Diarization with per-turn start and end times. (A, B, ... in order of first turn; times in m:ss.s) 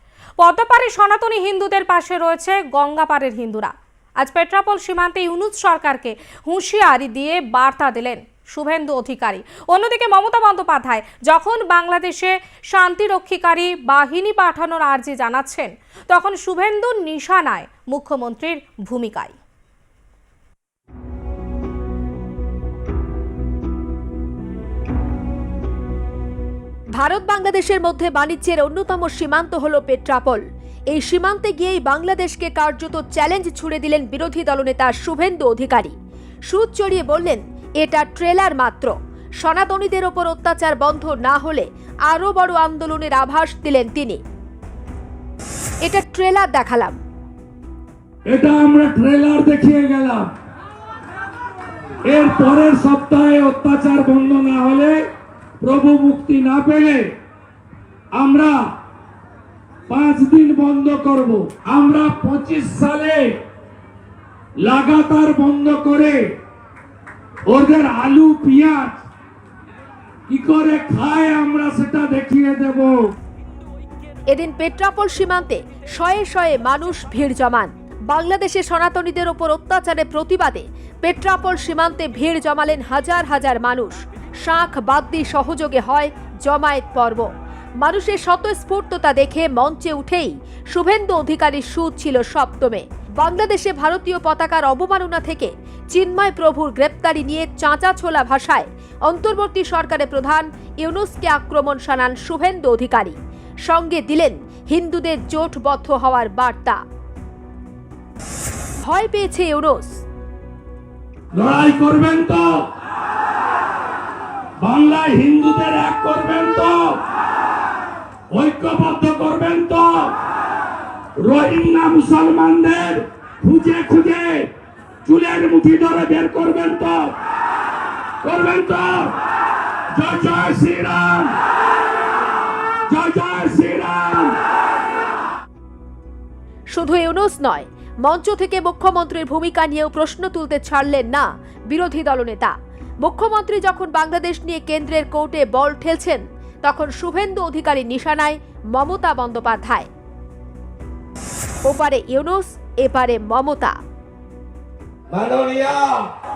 0:00.4-0:19.3 A
0:27.0-0:36.0 B
0:36.5-0:44.2 B
0:45.8-0:47.0 B
0:48.3-0:50.3 C
0:52.0-0:55.0 C
0:55.6-0:57.1 C
0:58.1-0:58.7 C
0:59.9-1:03.4 C
1:04.6-1:06.2 C
1:07.5-1:09.0 C
1:10.3-1:13.1 C
1:14.3-1:27.3 B
1:27.8-1:46.8 B
1:48.8-1:50.0 B
1:51.3-1:52.5 C
1:54.6-1:56.9 C
1:58.3-2:00.1 C
2:01.2-2:04.5 C
2:05.0-2:07.1 C
2:08.2-2:09.1 C
2:09.9-2:11.4 C
2:12.9-2:14.4 C
2:16.7-2:29.9 B
2:31.6-2:33.8 B
2:35.1-2:36.0 C